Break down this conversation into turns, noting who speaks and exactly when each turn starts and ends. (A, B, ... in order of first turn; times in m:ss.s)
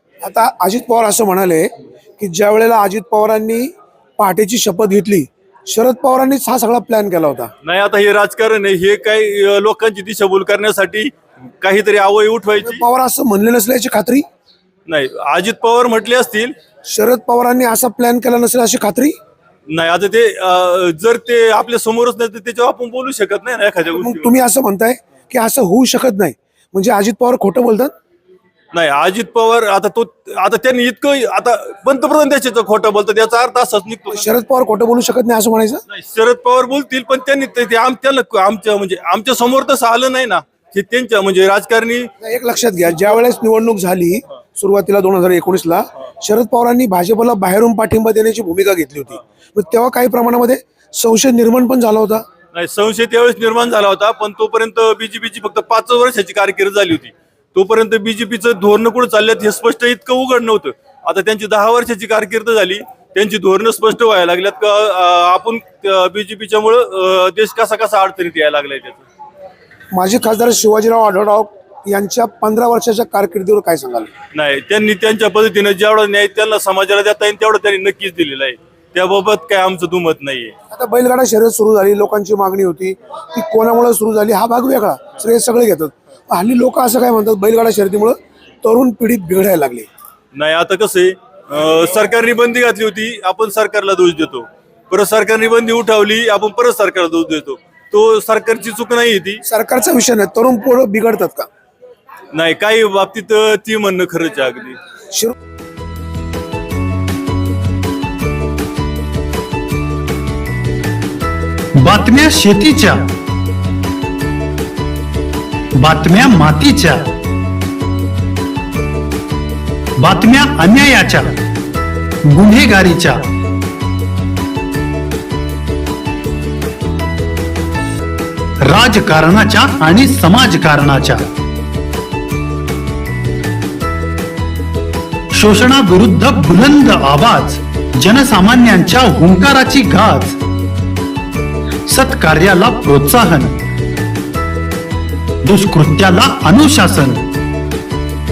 0:00.2-0:07.5 A
0:07.6-0:12.8 B
0:12.6-0:14.2 A
0:14.9-0:16.5 B
0:16.9-0:19.2 A
0:19.7-0:24.3 B
0:23.9-0:27.9 A
0:28.7-0:34.3 B
0:34.1-0:35.8 A
0:35.9-0:42.1 B
0:42.2-0:52.2 A
0:52.5-1:09.0 B
1:09.9-1:14.1 A
1:14.3-1:20.5 B
1:20.7-1:29.9 A
1:30.3-1:39.4 B
1:39.4-1:41.5 A
1:42.3-1:44.8 B
1:51.8-1:53.1 C
1:55.8-1:57.1 C
2:00.0-2:01.4 C
2:02.3-2:03.3 C
2:08.6-2:11.3 C
2:15.3-2:20.4 C
2:21.9-2:23.6 C
2:25.4-2:27.2 C